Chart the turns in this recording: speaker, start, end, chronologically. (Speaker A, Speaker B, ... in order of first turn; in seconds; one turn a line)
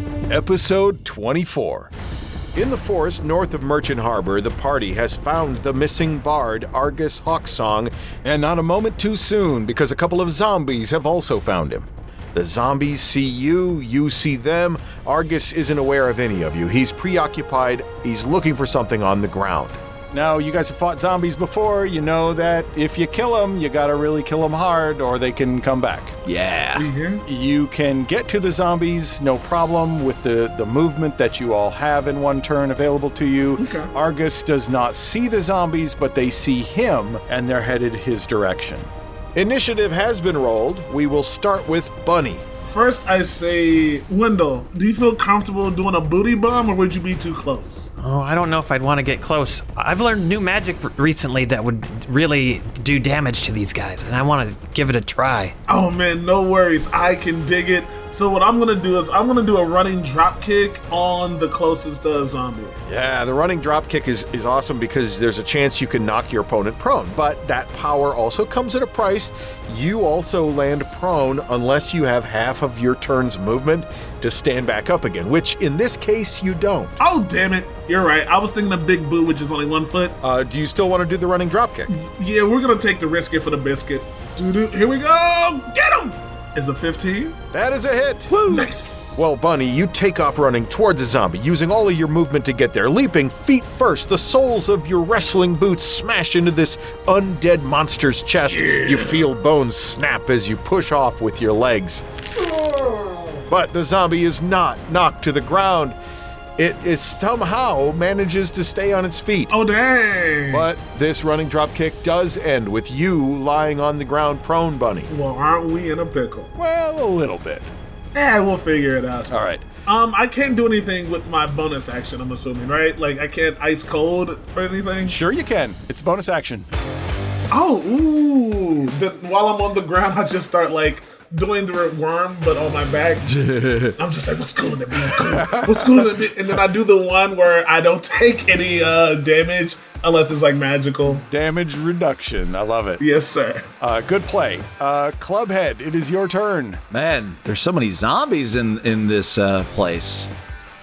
Speaker A: 0.3-1.9
Speaker A: 2.5-26.1
Speaker B: 26.2-26.9
Speaker C: 26.8-27.2
Speaker A: 27.2-42.4
Speaker C: 33.6-33.9
Speaker C: 42.7-47.9
Speaker D: 48.0-55.5
Speaker C: 55.7-62.8
Speaker A: 62.9-76.9
Speaker C: 77.0-80.2
Speaker A: 80.2-81.9
Speaker C: 81.9-87.3
Speaker A: 87.5-88.4
Speaker B: 88.3-88.7
Speaker C: 88.4-89.3
Speaker A: 89.2-102.0
Speaker C: 98.7-99.0
Speaker C: 102.5-103.4
Speaker A: 103.5-106.0
Speaker A: 106.6-109.5
Speaker C: 109.5-110.7
Speaker A: 110.5-115.1
Speaker C: 115.1-116.5
Speaker A: 116.6-117.7
Speaker C: 118.1-119.3
Speaker A: 119.3-119.7
Speaker C: 119.9-125.2
Speaker A: 125.0-126.7
Speaker C: 127.5-133.3
Speaker B: 133.2-134.0
Speaker C: 134.0-141.2
Speaker A: 135.4-136.0
Speaker A: 141.2-143.0
Speaker C: 143.0-143.7
Speaker A: 143.8-146.8
Speaker B: 146.9-150.3